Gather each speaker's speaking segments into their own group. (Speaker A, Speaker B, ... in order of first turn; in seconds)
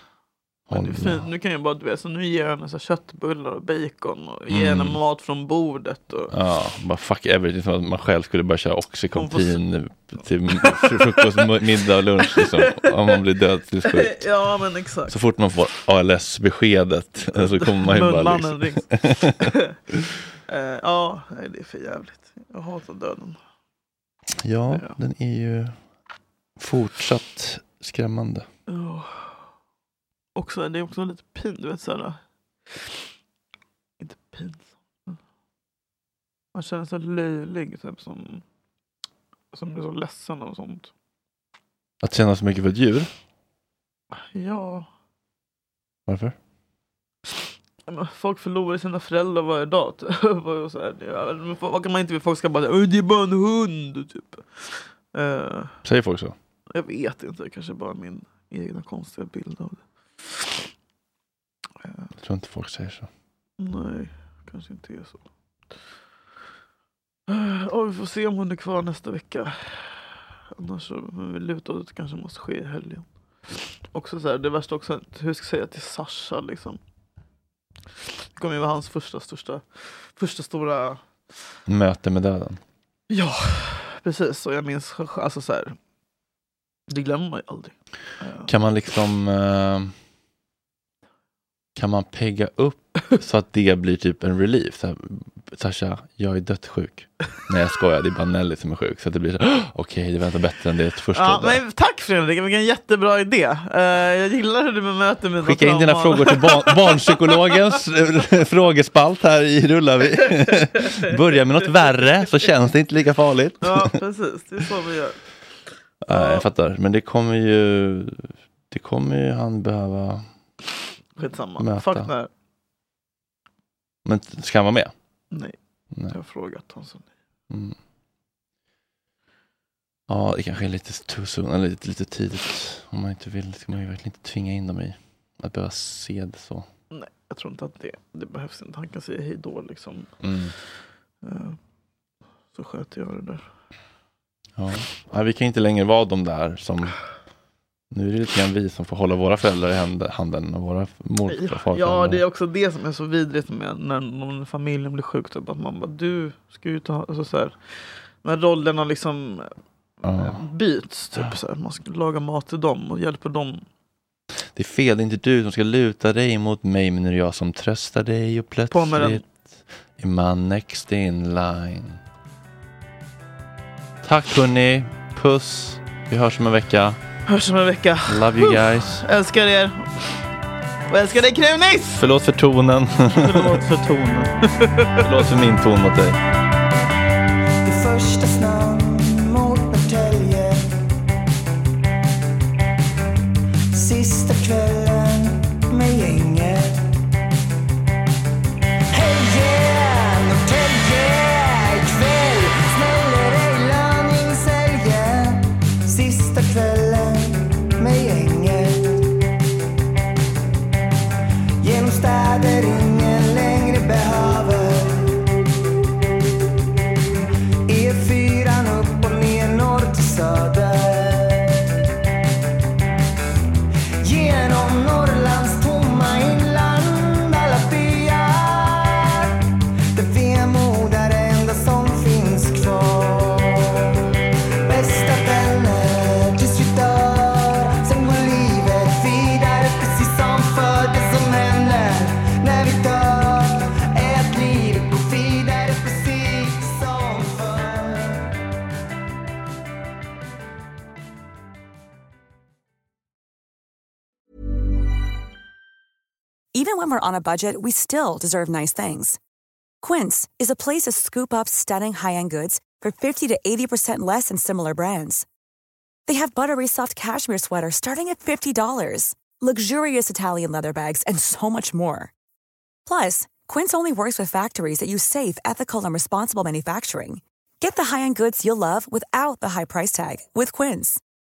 Speaker A: 0.7-1.3, 4.5-5.0, 6.3-14.2, 15.1-19.3, 24.4-25.8, 26.6-28.5, 42.0-43.1, 46.1-46.4, 55.9-56.3, 62.2-63.1, 81.7-82.6, 88.5-89.9, 91.8-101.6, 105.4-113.9, 116.0-120.2, 121.6-122.1, 124.0-124.9, 130.1-136.7, 140.2-140.5, 144.6-147.0, 147.9-152.2, 160.1-160.4, 164.6-169.4, 170.0-172.0, 174.0-177.0, 178.1-179.0, 182.0-183.6, 185.0-186.2
Speaker B: 0.7-6.3, 9.2-9.6, 10.5-11.5, 12.3-13.1, 13.9-15.1, 17.3-19.7, 20.5-23.4, 28.7-29.2, 30.4-32.2, 34.0-34.7, 36.5-38.4, 39.5-40.9, 44.3-44.9, 47.9-55.7, 56.7-60.5, 63.6-65.2, 67.3-69.9, 70.6-73.0, 73.9-76.8, 78.4-81.0, 83.1-85.8, 86.9-88.5, 101.2-107.5, 110.5-112.0, 113.6-115.2, 116.1-116.4, 121.2-122.3, 126.1-127.1, 136.9-140.1, 141.2-141.6, 142.5-143.4, 151.3-157.5, 158.2-159.5, 160.1-163.6, 168.7-169.2, 177.3-180.2, 180.9-182.0, 183.1-185.1
Speaker C: 187.7-190.7, 193.7-197.0, 198.9-209.0, 211.6-215.2, 217.7-221.6, 224.0-229.4, 229.9-233.9, 234.7-248.2
Speaker D: 256.5-259.2, 259.8-265.2, 266.1-272.1, 272.9-281.0